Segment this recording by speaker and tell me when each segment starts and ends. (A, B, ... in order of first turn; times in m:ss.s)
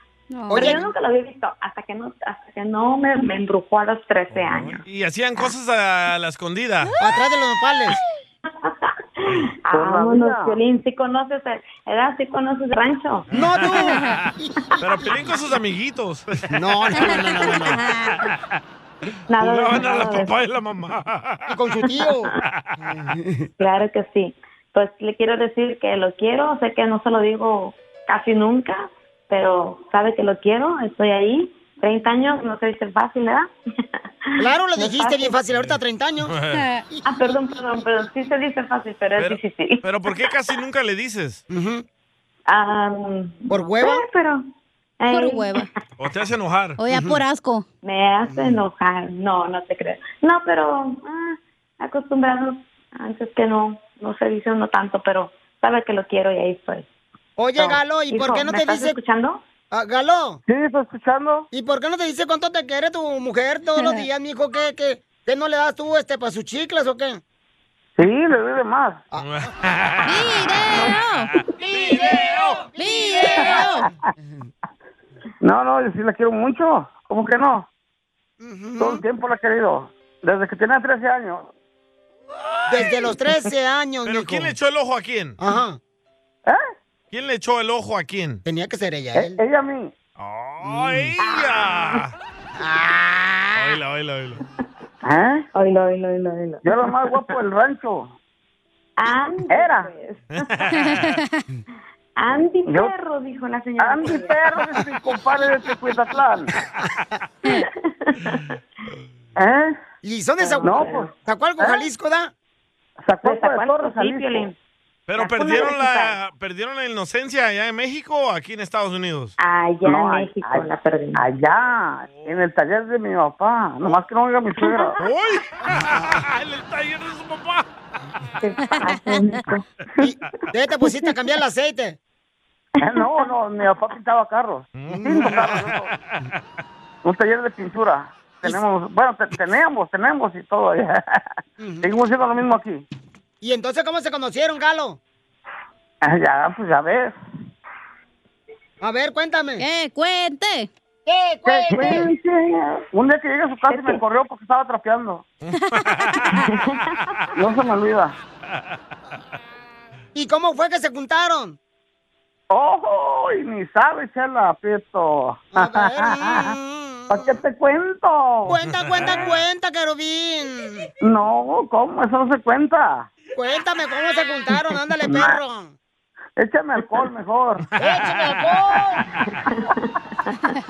0:00.3-0:00.8 A
0:00.5-0:00.9 B
0:00.5-0:04.8 C
0:04.3-0:06.9 D
0:07.0-0:08.0 B
0:08.6-0:13.3 C
0:09.7-0:10.6 E
0:13.3-0:14.0 B
0:13.3-0:14.1 D
0:14.8-0:17.6 D
0:16.5-0:17.8 B
0:17.0-0:18.1 A
0:18.1-0:18.6 D
0:19.3-0:20.4 C
0:19.4-0:21.6 D
0:21.5-0:23.5 B
0:22.4-0:22.7 D
0:23.6-0:33.5 C
0:34.4-0:35.4 C
0:34.4-0:36.3 B
0:35.6-0:36.6 D
0:36.5-0:36.8 A
0:37.0-0:40.1 C
0:39.2-0:41.4 D
0:41.5-0:41.8 B
0:42.5-0:44.4 C
0:43.5-0:44.0 B
0:45.0-0:45.6 C
0:45.1-0:45.7 A
0:46.0-0:46.8 D
0:46.8-0:47.6 A
0:46.9-0:47.2 B
0:47.8-0:56.8 C
0:48.2-0:48.6 B
0:57.4-0:59.0 B
0:57.5-0:59.4 C
0:59.7-1:00.4 B
1:00.5-1:01.5 E
1:01.5-1:07.2 B
1:03.8-1:04.0 A
1:08.0-1:09.0 E
1:09.2-1:10.3 D
1:10.0-1:11.3 A
1:11.3-1:12.7 D
1:11.6-1:14.5 B
1:12.8-1:13.9 A
1:15.4-1:17.7 E
1:18.4-1:19.0 B
1:18.8-1:21.5 E
1:22.7-1:24.5 B
1:24.0-1:25.4 D
1:25.4-1:25.8 B
1:27.1-1:28.4 D
1:28.4-1:29.4 B
1:29.1-1:29.9 E
1:30.2-1:32.1 D
1:30.8-1:31.0 B
1:31.2-1:32.0 C
1:32.6-1:33.8 B
1:33.5-1:34.4 D
1:35.0-1:35.4 E
1:35.5-1:36.6 C
1:36.6-1:38.1 E
1:39.0-1:40.5 C
1:39.5-1:39.9 E
1:40.3-1:41.2 D
1:40.7-1:41.4 A
1:42.2-1:44.4 C
1:42.7-1:42.9 E
1:43.8-1:46.5 E
1:47.5-1:48.6 C
1:49.4-1:49.8 E
1:50.0-1:52.3 B
1:50.4-1:51.1 C
1:50.6-1:51.8 E
1:53.0-1:54.5 E
1:53.2-1:54.5 C
1:55.1-1:59.3 D
1:55.1-1:56.2 C
1:59.4-2:01.2 C
1:59.8-2:04.9 E
2:02.0-2:02.4 D
2:04.7-2:05.0 C
2:05.0-2:07.7 D
2:08.4-2:09.6 C
2:08.6-2:09.4 A
2:10.0-2:12.0 B
2:12.8-2:15.9 E
2:13.0-2:13.2 C
2:14.7-2:16.4 D
2:14.9-2:15.6 B
2:17.0-2:21.2 E
2:21.6-2:21.9 B
2:21.8-2:22.8 E
2:23.4-2:25.0 B
2:26.0-2:27.2 E
2:28.8-2:29.6 B
2:29.6-2:30.7 A
2:31.0-2:32.1 B
2:31.4-2:35.2 E
2:33.7-2:34.0 C
2:35.4-2:36.4 D
2:36.1-2:36.4 A
2:36.5-2:37.0 C
2:37.4-2:38.2 E
2:40.1-2:41.6 B
2:42.5-2:46.5 E
2:45.5-2:47.4 B
2:47.1-2:48.6 E
2:48.4-2:50.9 B
2:48.7-2:49.4 D
2:51.0-2:53.1 E
2:53.3-2:55.7 B
2:55.0-2:55.4 E
2:56.4-2:57.6 E
2:57.6-2:58.6 D
2:57.8-2:59.0 B
2:59.6-2:59.8 C